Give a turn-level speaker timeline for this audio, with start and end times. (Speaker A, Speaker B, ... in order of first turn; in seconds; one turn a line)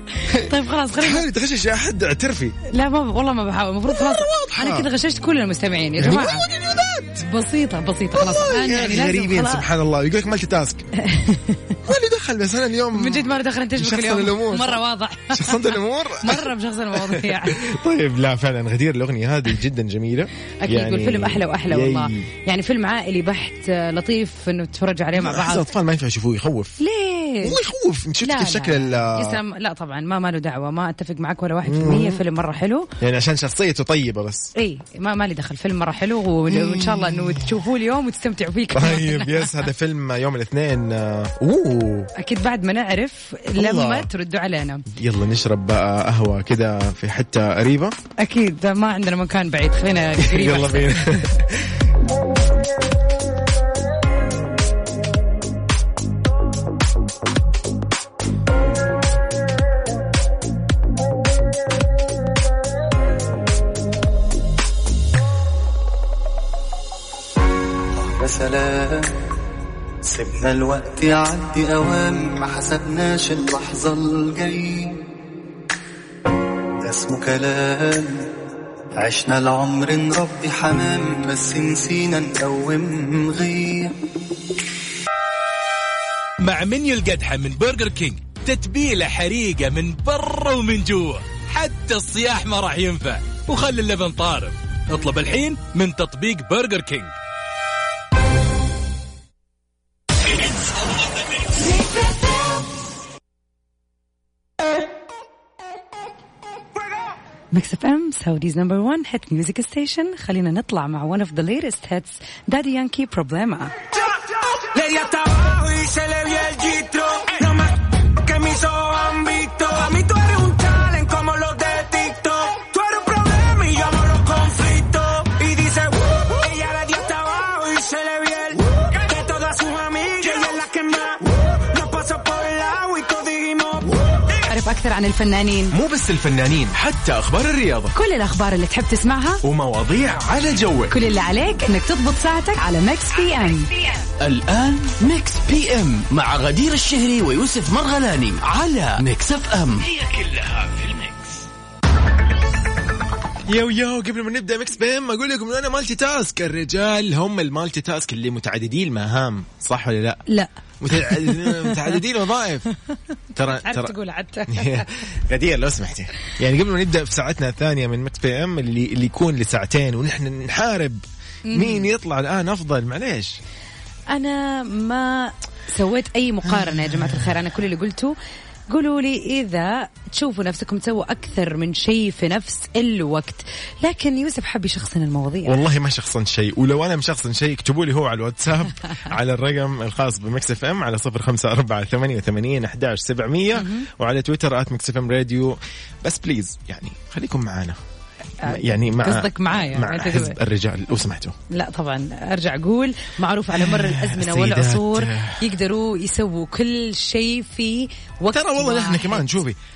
Speaker A: 0.3-2.6
Speaker B: 0.3-1.3
Speaker B: 2.7-6.5
Speaker A: 3.9-4.9
Speaker A: 6.0-7.2
Speaker B: 7.2-9.6
Speaker A: 8.1-10.8
Speaker B: 11.0-11.8
Speaker A: 11.9-22.3
Speaker B: 12.9-17.6
Speaker B: 20.6-25.7
Speaker A: 25.1-26.8
Speaker B: 26.8-27.6
Speaker A: 27.4-29.4
Speaker B: 28.2-32.9
Speaker A: 31.6-32.2
Speaker A: 33.0-34.5
Speaker B: 34.5-39.6
Speaker A: 36.5-37.5
Speaker A: 38.7-42.1
Speaker B: 42.2-44.9
Speaker A: 43.5-44.1
Speaker A: 44.9-48.0
Speaker B: 48.2-51.3
Speaker A: 50.2-51.8
Speaker C: 68.0-69.1
Speaker C: 70.0-75.0
Speaker C: 76.8-78.3
Speaker C: 79.0-84.0
Speaker D: 86.4-97.1
Speaker B: 107.5-113.7
Speaker E: 114.1-134.4
Speaker B: 134.5-135.8
Speaker A: 135.7-137.9
Speaker B: 137.9-139.4
Speaker A: 139.4-140.9
Speaker B: 140.9-143.7
Speaker F: 144.2-151.3
Speaker A: 153.4-160.2
Speaker B: 160.3-162.0
Speaker A: 160.8-162.7
Speaker A: 163.3-163.9
Speaker B: 163.4-164.9
Speaker A: 164.5-173.4
Speaker B: 171.5-171.9
Speaker B: 174.1-178.2
Speaker A: 176.5-177.3
Speaker B: 178.7-185.5
Speaker A: 185.4-197.8
Speaker B: 193.5-193.9
Speaker B: 198.4-200.4
Speaker A: 198.4-201.3
Speaker B: 201.5-209.3
Speaker A: 203.5-205.4
Speaker A: 208.3-209.6